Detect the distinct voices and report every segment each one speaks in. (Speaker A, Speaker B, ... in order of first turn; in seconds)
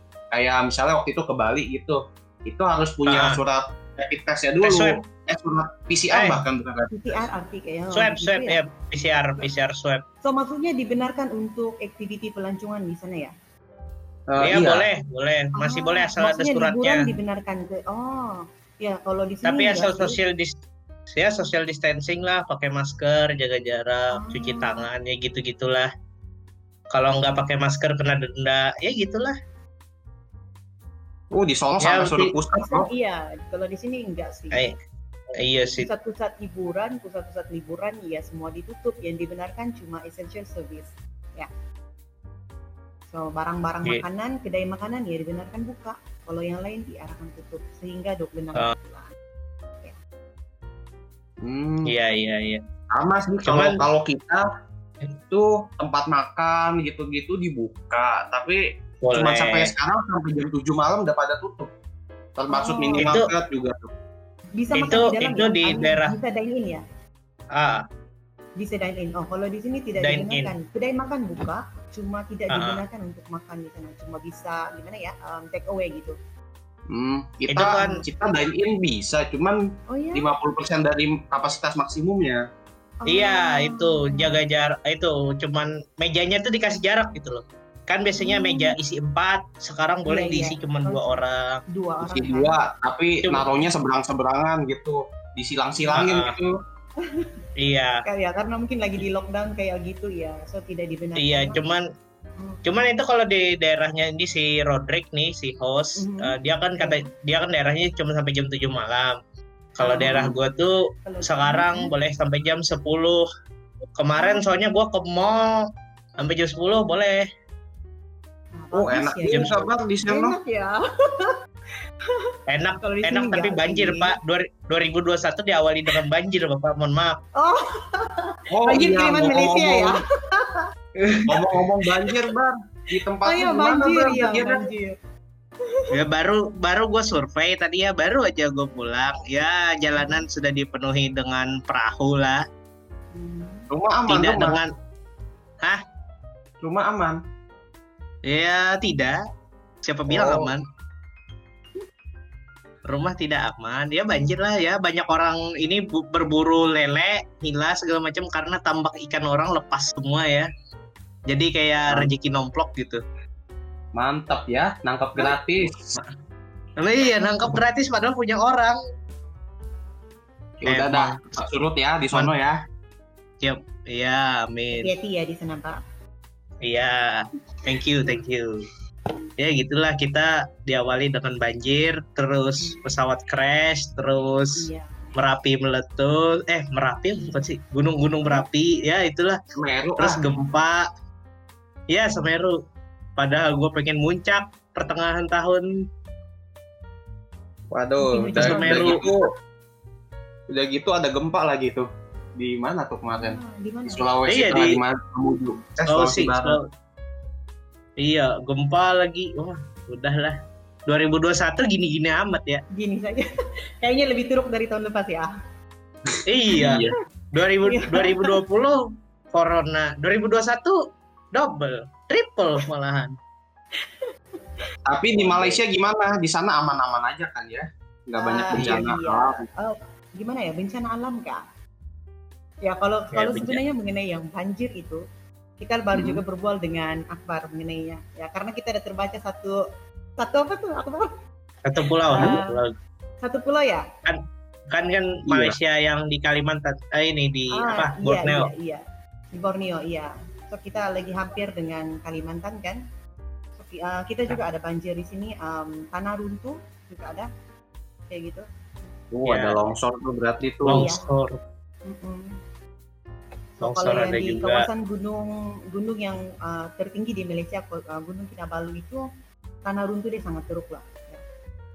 Speaker A: 0.3-7.1, 14.3-14.8, 31.3-32.9, 51.4-51.9, 52.9-54.4, 55.3-58.6, 59.1-61.7, 62.4-63.9, 76.9-79.6, 80.1-82.4, 92.0-96.5, 118.7-120.3, 128.5-129.9, 131.3-134.6, 143.7-144.6, 146.6-147.2, 150.1-150.5, 163.9-165.7, 170.6-172.5, 189.6-190.2, 197.7-199.2, 200.5-206.6, 216.6-216.9, 224.9-229.4, 235.9-236.2, 245.3-245.6, 259.1-260.8
Speaker B: 3.0-3.4, 4.6-5.0, 6.1-6.4, 7.9-10.0, 14.4-17.0, 19.4-20.5, 21.1-25.9, 26.9-29.3, 31.8-32.3, 35.4-35.9, 51.9-52.6, 53.5-53.8, 59.0-59.7, 63.0-63.3, 64.7-66.1, 67.5-67.8, 70.0-70.5, 72.5-72.8, 77.5-78.0, 83.1-91.6, 93.2-93.5, 96.0-96.3, 97.6-98.0, 101.2-101.8, 102.6-109.1, 109.8-113.2, 114.0-115.5, 116.2-117.2, 119.3-119.5, 122.5-127.2, 135.9-142.4, 144.1-144.7, 148.2-149.2, 149.8-150.6, 152.9-160.5, 161.3-163.0, 166.8-168.8, 170.7-171.4, 173.4-174.9, 176.6-178.5, 179.4-189.4, 190.0-190.8, 191.9-192.5, 193.2-195.6, 198.4-199.0, 204.3-204.8, 205.9-206.6, 208.0-210.3, 210.9-212.6, 216.2-218.8, 219.3-220.8, 221.3-223.1, 225.1-225.6, 228.5-228.8, 233.1-233.6, 241.6-242.7, 244.7-248.5, 259.2-259.6, 260.6-261.4, 263.6-264.6
Speaker C: 6.9-8.6, 9.1-9.5, 10.2-13.3, 15.6-20.2, 24.1-24.8, 32.6-34.7, 35.7-41.5, 43.1-49.1, 62.5-63.1, 64.6-66.8, 68.6-76.2, 79.9-80.3, 83.0-84.4, 88.2-88.7, 90.0-92.5, 95.7-96.1, 97.0-97.3, 98.0-101.6, 102.4-102.6, 106.0-107.1, 109.8-110.3, 111.0-111.9, 114.2-114.5, 118.5-121.3, 122.8-124.1, 127.4-130.6, 133.2-135.0, 139.9-140.2, 143.1-143.7, 174.8-175.8, 182.6-182.8, 184.6-185.1, 187.2-187.5, 198.0-199.1, 203.1-204.0, 212.7-213.3, 213.8-215.3, 216.5-216.9, 217.6-218.4, 223.8-224.1, 228.2-231.4, 232.6-235.0, 235.6-239.6, 240.2-241.1, 242.0-242.6, 243.2-243.8, 247.5-252.8, 253.6-257.3, 258.1-258.4, 260.7-261.0, 261.9-262.3, 263.6-269.0, 269.6-271.2